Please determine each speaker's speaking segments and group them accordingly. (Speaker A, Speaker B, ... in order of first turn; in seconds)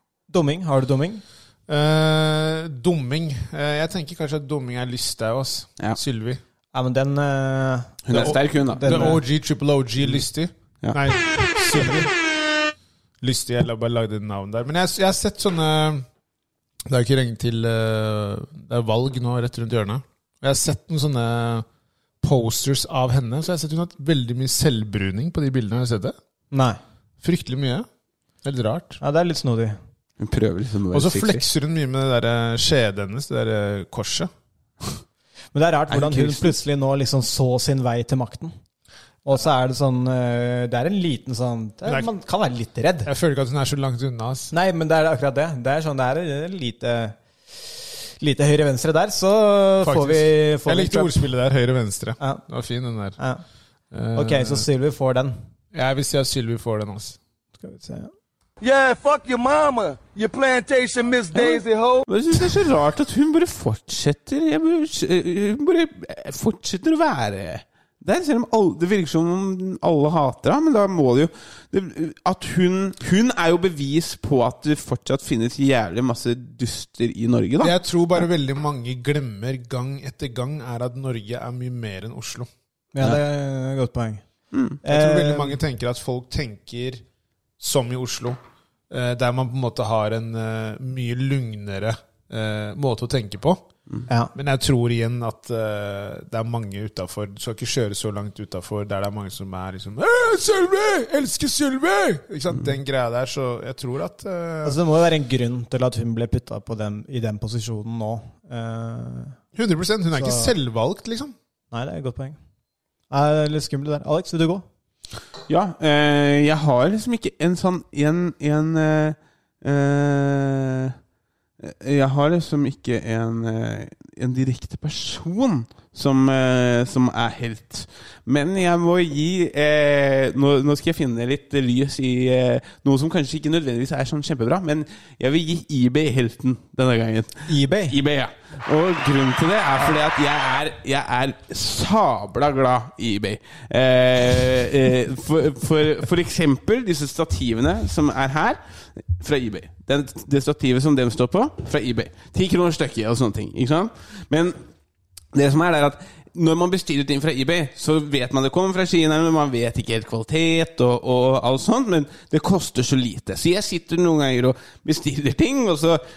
Speaker A: 0.3-1.2, 6.7-9.2, 26.5-26.8, 29.0-29.8, 35.5-38.5, 39.2-43.1, 44.5-51.2, 54.1-55.4, 57.6-58.1, 83.0-84.2, 84.8-85.6, 104.7-109.4, 110.2-110.5, 111.7-112.4, 113.1-114.6, 137.5-137.9
Speaker B: 1.7-6.4, 8.1-12.1, 13.2-16.1, 16.9-21.6, 22.2-26.1, 27.2-27.9, 28.4-29.0, 30.9-34.3, 43.0-44.5, 49.8-53.2, 53.9-54.6, 55.7-57.2, 77.6-82.5, 84.9-87.0, 87.6-88.4, 88.9-93.7, 94.3-104.8, 109.5-111.3
Speaker C: 8.1-9.1, 30.2-31.4, 35.9-36.5, 61.3-77.8, 84.5-84.8, 115.5-121.0, 121.6-148.6, 149.1-154.6, 155.3-166.0
Speaker D: 58.6-62.1